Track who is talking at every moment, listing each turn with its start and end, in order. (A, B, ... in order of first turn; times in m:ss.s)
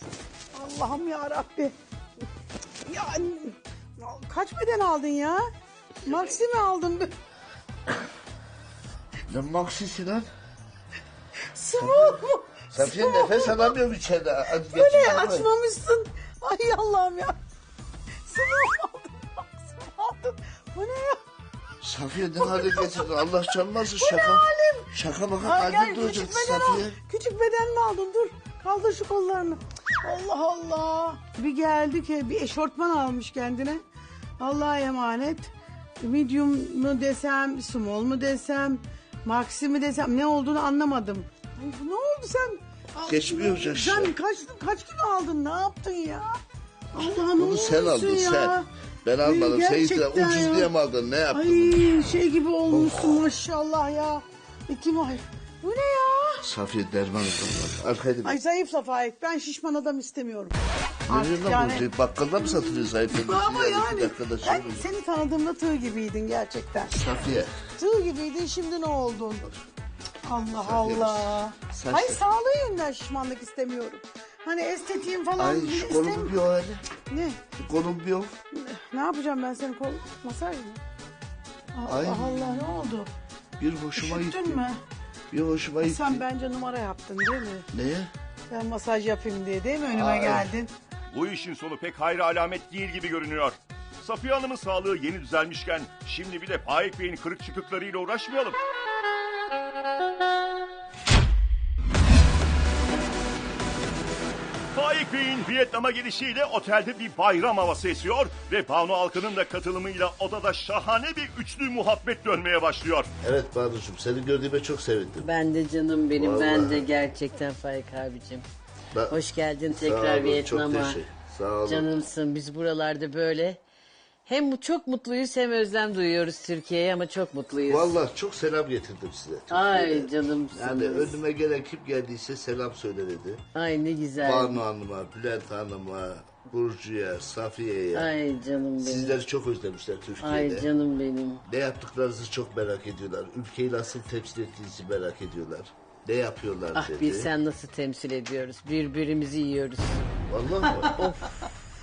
0:00.5-0:01.7 A
0:02.8-0:05.4 A
0:06.0-0:07.1 A
0:09.3-0:10.3 B
0:11.5-0:13.7 A
0:11.8-0:15.5 B
0:14.7-0:17.4 A
0:18.3-0:21.2 A
0:21.8-0:27.0 B
0:22.4-0:24.9 A
0:25.4-0:33.8 A
0:34.4-0:46.3 A
0:43.0-0:44.1 B
0:46.9-0:48.6 A
0:47.0-0:52.1 B
0:49.2-0:50.7 A
0:51.3-0:56.5 A
0:52.7-0:53.3 B
0:56.4-0:58.4 B
0:58.2-1:00.6 A
1:01.1-1:04.9 B
1:01.1-1:06.9 A
1:06.9-1:07.5 B
1:07.8-1:09.4 A
1:10.2-1:16.4 A
1:10.5-1:12.2 B
1:15.4-1:16.8 B
1:17.1-1:17.4 A
1:17.5-1:18.4 B
1:18.5-1:20.8 A
1:21.8-1:23.1 A
1:21.9-1:22.7 B
1:23.6-1:24.6 B
1:24.0-1:24.8 A
1:25.3-1:26.2 B
1:25.8-1:27.6 A
1:27.7-1:28.1 B
1:28.5-1:30.7 A
1:29.9-1:30.5 B
1:31.1-1:38.6 C
1:44.7-1:53.1 C
1:53.2-1:55.3 B
1:55.2-1:58.4 D
1:56.2-1:56.9 B
1:59.1-2:01.0 D
1:59.7-2:01.9 B
2:01.6-2:03.6 D
2:04.2-2:08.0 D
2:07.7-2:13.4 B
2:09.5-2:11.2 D
2:13.5-2:14.6 D
2:14.2-2:18.1 B
2:17.9-2:19.2 D
2:18.8-2:20.7 B
2:20.2-2:21.4 D
2:21.5-2:27.3 B
2:26.8-2:30.0 D
2:30.3-2:30.9 B
2:30.9-2:31.4 D